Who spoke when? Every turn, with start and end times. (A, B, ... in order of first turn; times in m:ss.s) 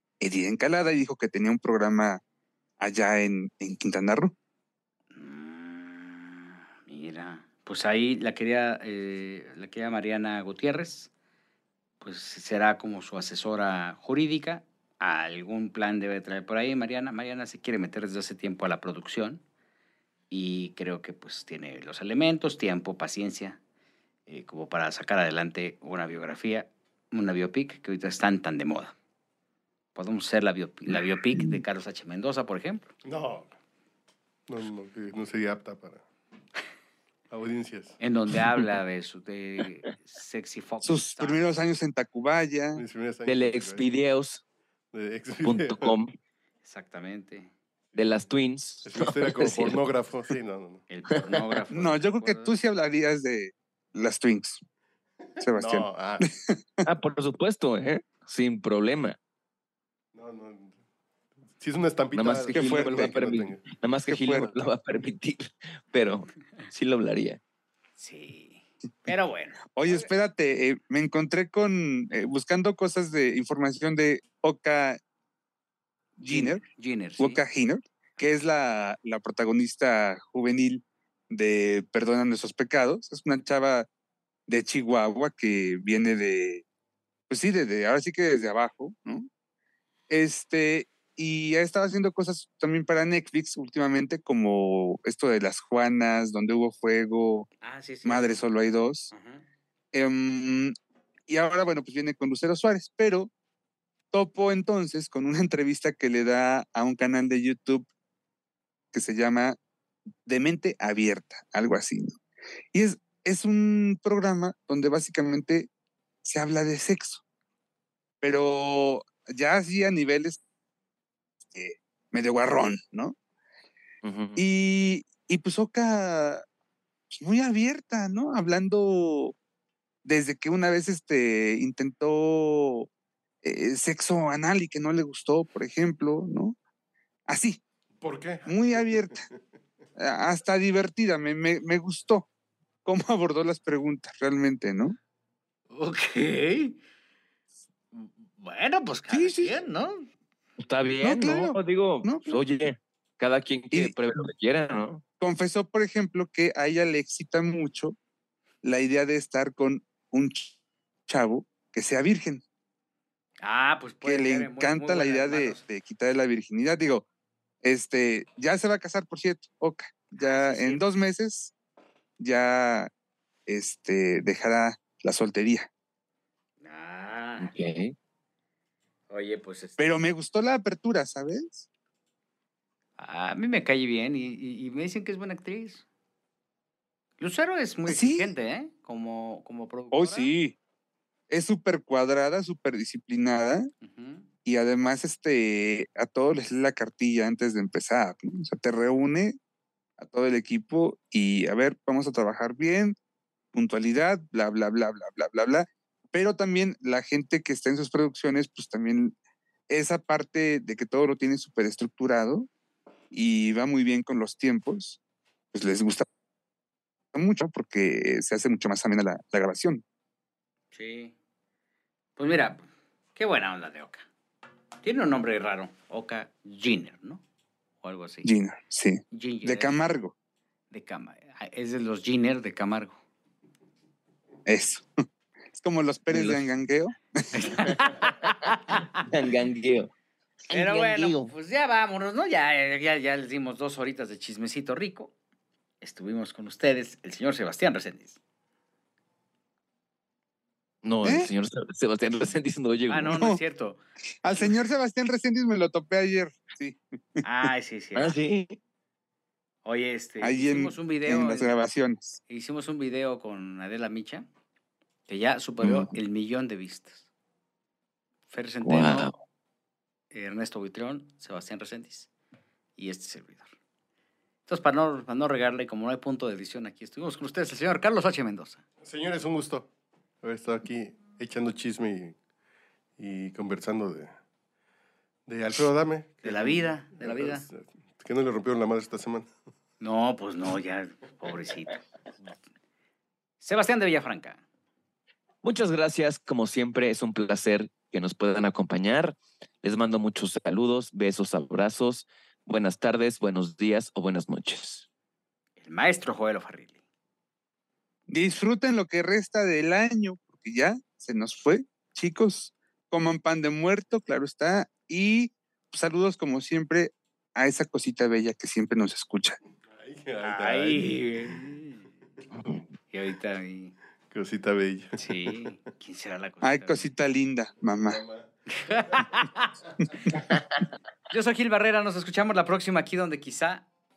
0:00.2-0:02.2 A
0:02.8-0:04.3 A
0:05.1-0:11.1 B
0:12.0-0:19.4 B
0:20.3-0:23.6 B
0:24.3-0:28.9 B
0:30.0-0:32.9 B
0:33.0-0:33.5 C
0:34.5-0:36.0 C
0:37.3-0:38.0 C
0:38.0-0:41.4 B
0:40.8-0:42.8 A
0:42.8-0:43.9 C
0:43.3-0:44.4 D
0:44.9-0:46.0 C
0:45.4-0:46.1 D
0:46.6-0:47.5 B
0:48.0-0:49.8 D
0:48.8-0:50.8 C
0:50.9-0:52.5 B
0:51.7-0:54.6 A
0:55.4-0:56.2 C
0:55.4-0:56.8 A
0:56.8-0:59.2 D
1:00.1-1:00.7 C
1:01.6-1:03.6 C
1:02.1-1:07.4 D
1:02.5-1:03.2 A
1:04.1-1:04.7 A
1:08.0-1:10.1 B
1:09.8-1:15.0 A
1:16.2-1:16.6 A
1:16.3-1:17.4 B
1:17.2-1:23.9 A
1:24.5-1:26.6 A
1:27.3-1:29.3 A
1:30.1-1:37.5 A
1:37.6-1:38.4 B
1:38.0-1:39.1 A
1:39.1-1:39.5 B
1:39.9-1:40.8 A
1:41.3-1:43.3 A
1:44.1-1:47.9 A
1:48.9-1:49.6 A
1:50.3-1:52.2 A
1:52.7-1:55.7 A
1:56.2-1:57.2 A
1:58.2-2:00.4 A
2:01.5-2:03.2 A
2:04.0-2:04.4 D
2:04.4-2:06.4 A
2:07.1-2:09.4 A
2:10.0-2:12.9 A
2:13.4-2:16.6 A
2:17.3-2:17.6 A
2:18.0-2:19.4 C
2:18.5-2:19.2 A
2:20.0-2:22.3 A
2:22.8-2:25.0 A
2:25.7-2:26.8 B
2:27.9-2:30.1 B
2:29.1-2:29.6 A
2:30.6-2:35.0 D
2:31.0-2:32.5 A
2:35.2-2:38.0 A
2:38.6-2:40.5 A
2:41.1-2:42.4 A
2:43.4-2:45.6 B
2:44.0-2:47.0 A
2:47.6-2:51.5 A
2:50.1-2:50.8 B
2:52.2-2:52.9 A
2:53.5-2:55.7 A
2:56.6-2:57.5 B
2:57.4-2:58.0 D
2:59.1-2:59.8 B
2:59.8-3:01.7 A
3:03.0-3:05.8 B
3:07.2-3:10.3 B
3:07.9-3:08.3 A
3:09.9-3:10.6 A
3:11.3-3:13.7 A
3:13.8-3:14.3 B
3:14.4-3:19.4 A
3:20.0-3:23.0 A
3:23.5-3:29.2 A
3:29.7-3:32.5 A
3:33.1-3:35.0 A
3:35.5-3:36.1 A
3:37.1-3:39.8 A
3:40.7-3:41.2 B
3:42.2-3:44.1 B
3:44.8-3:47.2 B
3:47.8-3:48.3 B
3:48.2-3:50.1 A
3:49.1-3:49.8 B
3:50.7-3:53.0 B
3:54.5-3:54.9 A
3:55.5-3:57.7 A
3:56.1-3:56.4 D
3:57.3-3:59.0 B
3:58.2-3:59.9 D
4:00.5-4:01.3 D
4:00.5-4:05.1 B
4:05.8-4:08.2 B
4:10.8-4:13.2 D
4:11.0-4:11.3 A
4:12.9-4:13.8 B
4:14.2-4:17.2 A
4:17.2-4:18.2 B
4:18.0-4:18.6 D
4:19.6-4:21.5 B
4:20.2-4:22.2 A
4:22.3-4:24.3 B
4:25.1-4:27.1 B
4:25.6-4:26.0 D
4:28.3-4:29.1 B
4:28.6-4:29.2 D
4:30.1-4:32.1 B
4:32.8-4:33.5 B
4:34.5-4:38.6 B
4:38.8-4:39.7 C
4:40.2-4:42.2 C
4:43.0-4:44.2 C
4:45.3-4:49.3 C
4:46.2-4:47.4 B
4:49.8-4:51.8 B
4:53.4-4:54.4 B
4:55.4-5:04.9 D
5:05.6-5:06.8 B
5:08.1-5:19.4 A
5:19.7-5:21.4 C
5:20.2-5:21.9 B
5:22.9-5:23.8 B
5:24.1-5:25.4 C
5:25.0-5:26.8 B
5:26.4-5:28.0 A
5:27.9-5:29.1 C
5:28.5-5:29.5 B
5:31.1-5:33.7 B